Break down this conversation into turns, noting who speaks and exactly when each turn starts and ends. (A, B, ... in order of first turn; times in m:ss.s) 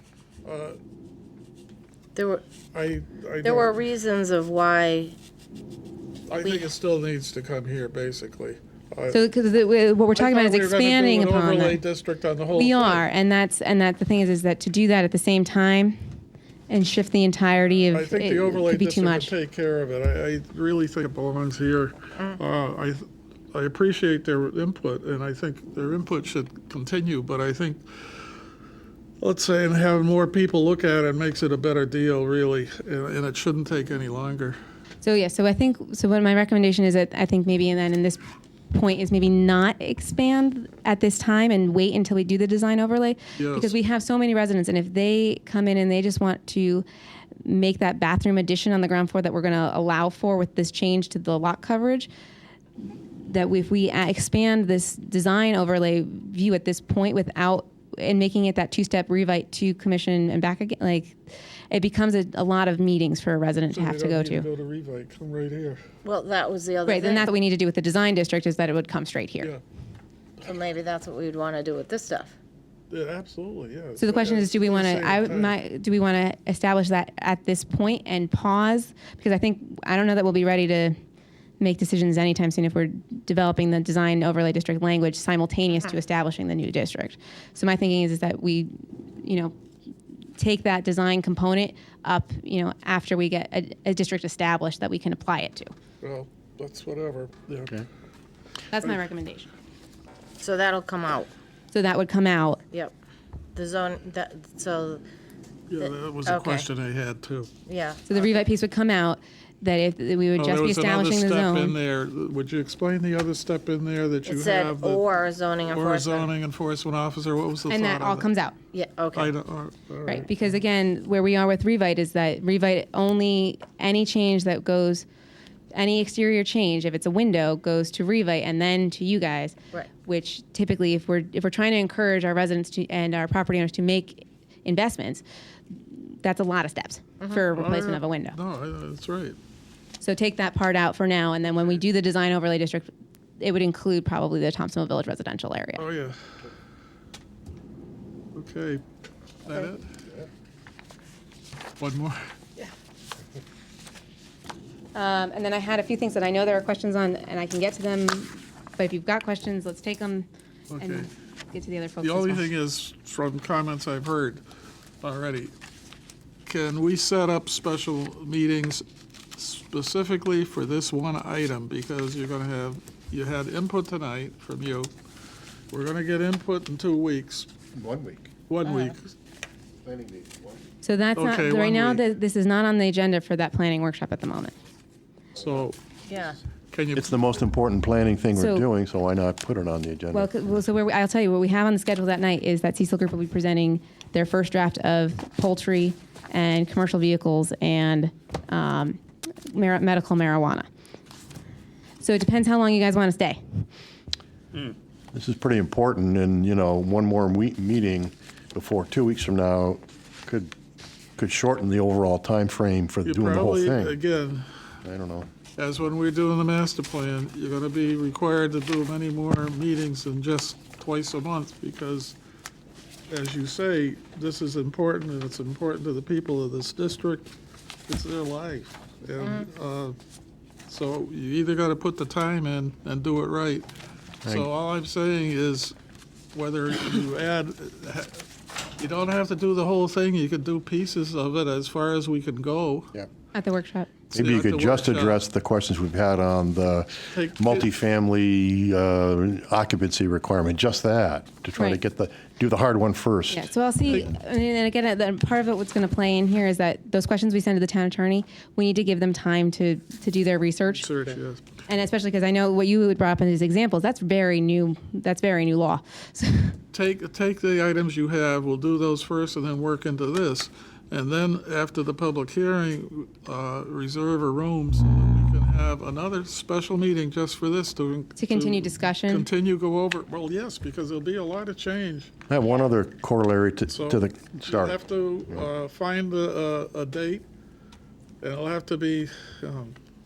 0:00.4-0:00.8 A
0:02.2-0:02.4 B
0:02.7-0:03.8 A
0:03.4-0:05.2 B
0:06.3-0:09.2 A
0:06.4-0:06.7 B
0:09.1-0:11.8 C
0:10.2-0:13.0 A
0:12.5-0:16.0 C
0:16.7-0:19.3 C
0:17.9-0:28.1 A
0:29.2-0:34.6 A
0:35.0-0:46.9 C
0:43.4-0:43.8 A
0:47.4-0:52.1 C
0:53.2-1:01.2 C
1:01.7-1:04.5 C
1:03.7-1:05.8 A
1:06.0-1:07.3 B
1:06.8-1:09.5 C
1:10.4-1:12.3 B
1:12.9-1:15.6 A
1:14.0-1:21.0 C
1:21.6-1:29.6 C
1:30.4-1:35.7 C
1:36.0-1:37.8 A
1:38.7-1:39.5 C
1:40.4-1:41.3 B
1:41.7-1:42.6 C
1:43.5-1:45.0 B
1:45.7-1:47.5 A
1:45.8-1:46.7 B
1:47.7-1:48.0 B
1:48.1-1:51.8 C
1:50.4-1:55.1 A
1:54.2-1:56.3 B
1:55.7-1:58.3 A
1:57.7-1:58.6 C
1:58.7-1:59.3 B
1:59.1-2:00.3 A
2:00.1-2:05.1 C
2:05.7-2:18.4 C
2:17.5-2:19.4 A
2:20.0-2:25.8 C
2:25.8-2:26.2 A
2:28.4-2:28.8 A
2:29.5-2:29.7 C
2:29.5-2:29.9 A
2:31.8-2:32.2 A
2:34.9-2:42.5 C
2:40.7-2:41.1 A
2:42.0-2:44.4 A
2:45.0-2:45.5 A
2:46.5-2:48.8 A
2:49.4-2:54.9 A
2:55.7-2:57.5 A
2:57.8-2:58.3 D
2:58.5-2:59.1 A
2:58.6-2:59.0 B
2:59.8-3:00.6 D
3:00.8-3:04.5 C
3:01.2-3:02.0 A
3:05.4-3:05.9 A
3:06.1-3:06.4 B
3:06.7-3:07.2 A
3:07.0-3:10.3 D
3:08.3-3:08.7 C
3:10.1-3:20.7 C
3:22.0-3:23.7 C
3:25.1-3:30.5 D
3:31.2-3:34.0 D
3:33.0-3:34.5 A
3:34.8-3:35.3 D
3:35.6-3:42.2 A
3:43.1-3:47.3 A
3:47.9-3:50.0 A
3:49.2-3:49.5 B
3:50.7-3:53.7 A
3:54.2-3:55.8 A
3:56.3-3:58.2 A
3:58.8-4:02.9 A
4:03.3-4:03.9 C
4:04.1-4:14.1 D
4:04.1-4:05.2 A
4:07.1-4:07.7 A
4:13.3-4:20.9 C
4:20.7-4:21.5 A
4:21.7-4:26.6 C
4:26.7-4:42.1 A
4:38.2-4:39.3 C
4:42.3-4:44.8 D
4:43.7-4:47.2 A
4:48.2-4:49.8 A